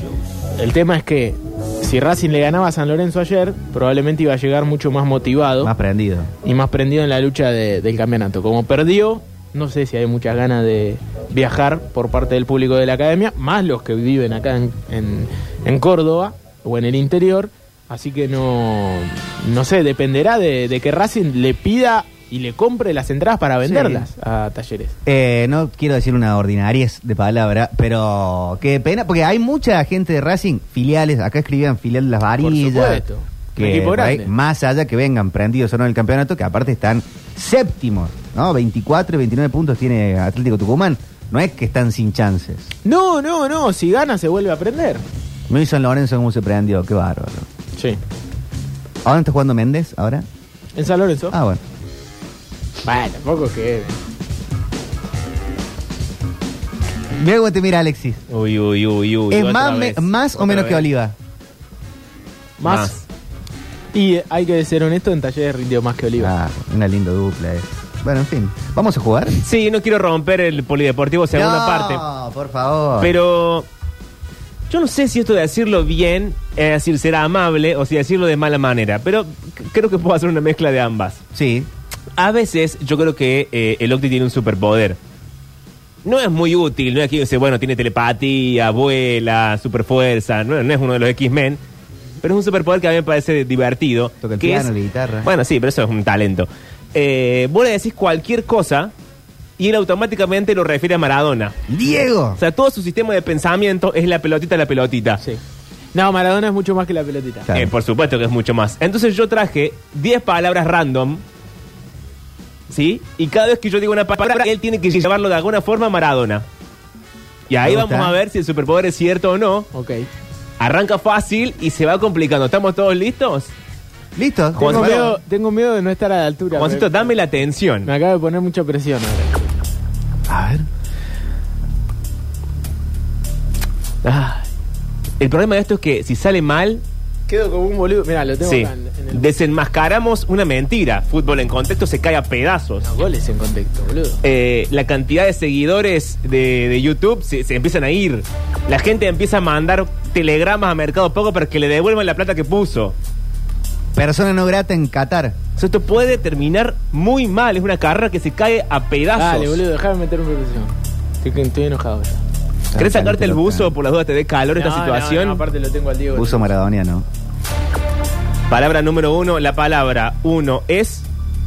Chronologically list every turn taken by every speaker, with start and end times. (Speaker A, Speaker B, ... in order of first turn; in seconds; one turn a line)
Speaker A: 0.6-5.7
Speaker B: 5.6-6.3
Speaker A: 6.4-24.9
Speaker B: 23.6-24.1
Speaker B: 25.1-33.0
Speaker A: 32.4-34.3
Speaker B: 33.5-42.7
Speaker A: 42.8-45.0
Speaker B: 45.5-47.5
Speaker B: 49.0-50.2
Speaker A: 50.8-51.4
Speaker B: 51.3-51.6
Speaker A: 52.8-53.9
Speaker B: 57.1-58.2
Speaker C: 58.3-60.9
Speaker B: 59.3-61.1
Speaker A: 62.6-63.0
Speaker C: 62.6-62.9
Speaker A: 63.9-66.3
Speaker B: 66.2-69.4
Speaker C: 69.4-72.0
Speaker B: 71.3-73.1
Speaker C: 73.0-73.7
Speaker C: 74.7-81.2
Speaker B: 81.3-81.7
Speaker C: 82.2-85.0
Speaker C: 86.0-91.6
Speaker C: 92.2-94.7
Speaker B: 94.2-95.3
Speaker C: 95.2-98.9
Speaker C: 99.6-101.5
Speaker B: 101.7-102.4
Speaker C: 102.4-105.2
Speaker A: 105.9-107.5
Speaker C: 107.5-111.2
Speaker C: 112.7-116.4
Speaker C: 117.5-119.7
Speaker B: 117.6-118.2
Speaker A: 119.7-120.1
Speaker C: 120.6-123.5
Speaker B: 124.1-125.2
Speaker C: 124.5-125.0
Speaker A: 124.6-127.1
Speaker C: 126.5-127.9
Speaker A: 127.8-129.6
Speaker C: 130.3-130.7
Speaker C: 134.0-134.5
Speaker C: 135.2-136.8
Speaker A: 137.3-139.3
Speaker C: 138.4-142.8
Speaker A: 142.8-144.2
Speaker C: 144.2-152.9
Speaker B: 153.9-155.4
Speaker C: 155.6-159.6
Speaker A: 159.1-162.2
Speaker B: 162.7-163.7
Speaker C: 162.8-165.4
Speaker A: 164.5-166.5
Speaker B: 166.1-167.1
Speaker C: 168.5-171.1